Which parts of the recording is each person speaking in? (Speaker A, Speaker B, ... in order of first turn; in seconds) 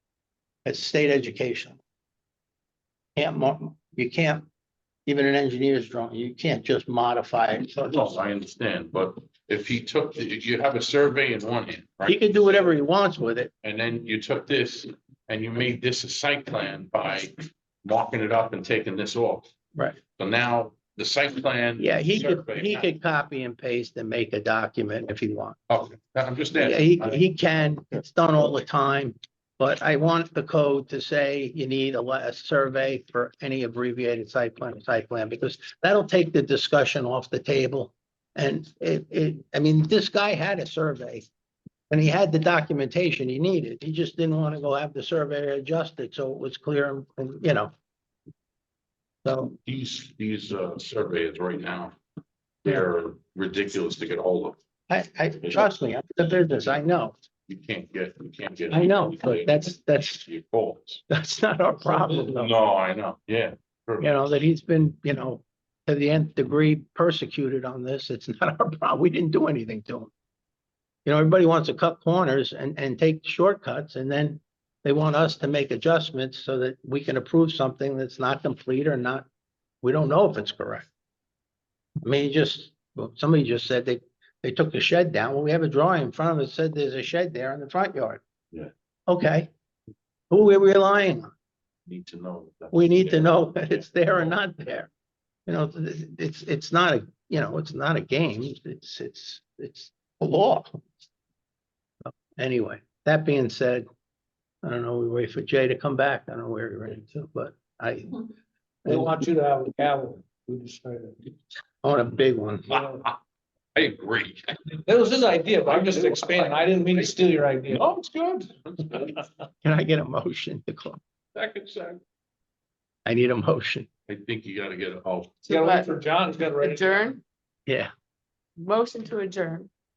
Speaker A: 0.6-1.8, 3.1-4.5, 5.0-8.0, 12.0-13.5, 21.8-25.6, 26.5-41.3, 41.9-47.7, 49.2-49.5, 54.9-57.1, 58.7-60.2, 61.1-62.5, 64.0-70.1, 71.0-79.3, 79.8-80.8, 82.0-88.2, 89.1-89.5, 90.3-91.3, 92.7-94.9, 95.5-100.7, 102.3-103.8, 104.6-108.2, 108.8-109.2, 111.8-112.8, 119.6-121.0, 123.0-123.9
Speaker B: 7.8-12.7, 13.6-19.5, 20.1-22.9, 25.7-27.2, 49.5-51.9, 52.6-54.6, 55.4-55.7, 57.5-61.0, 62.1-64.1, 91.8-94.4, 112.7-113.2, 113.7-114.6, 115.7-116.9, 117.7-119.2, 121.3-122.0, 124.1-125.4
Speaker C: 108.8-111.3, 112.7-113.0, 114.7-117.8, 125.5-127.1
Speaker D: 125.4-125.9, 126.6-127.2, 128.6-129.7